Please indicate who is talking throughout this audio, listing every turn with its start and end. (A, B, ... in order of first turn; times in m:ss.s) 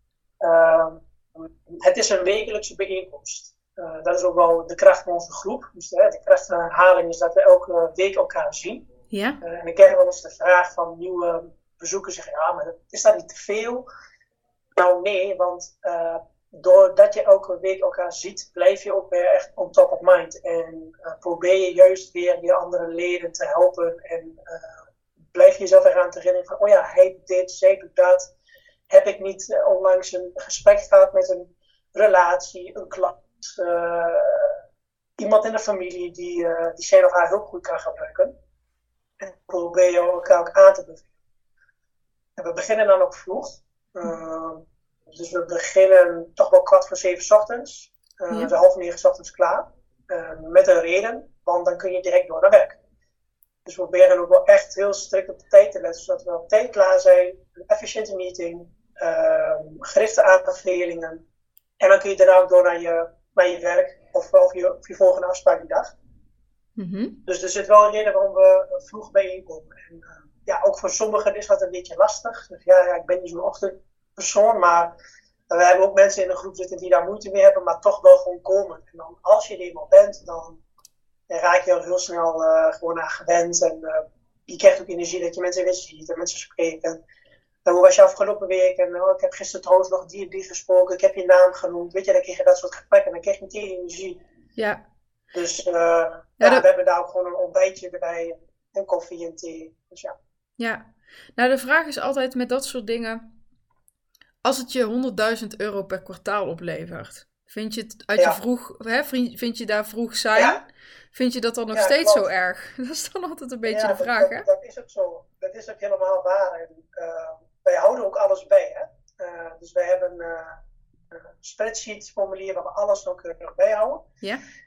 0:00.4-0:08.8 A
0:09.1-0:09.4 B
0:09.4-0:13.8 A
0:14.8-0:24.8 A
0:25.3-0:28.3 A
0:28.9-0:34.6 A
0:35.2-0:38.3 A
0:39.2-0:41.1 A
0:42.4-0:52.8 A
0:53.7-1:01.2 A
1:01.8-1:05.9 A
1:06.8-1:07.2 B
1:07.3-1:15.0 A
1:15.5-1:20.6 A
1:21.3-1:27.0 A
1:27.6-1:34.2 A
1:35.3-1:40.2 A
1:40.6-1:43.2 B
1:44.4-1:50.6 B
1:50.4-1:50.6 A
1:51.1-1:54.5 B
1:51.7-1:52.3 A
1:53.7-2:00.6 A
2:01.1-2:04.1 A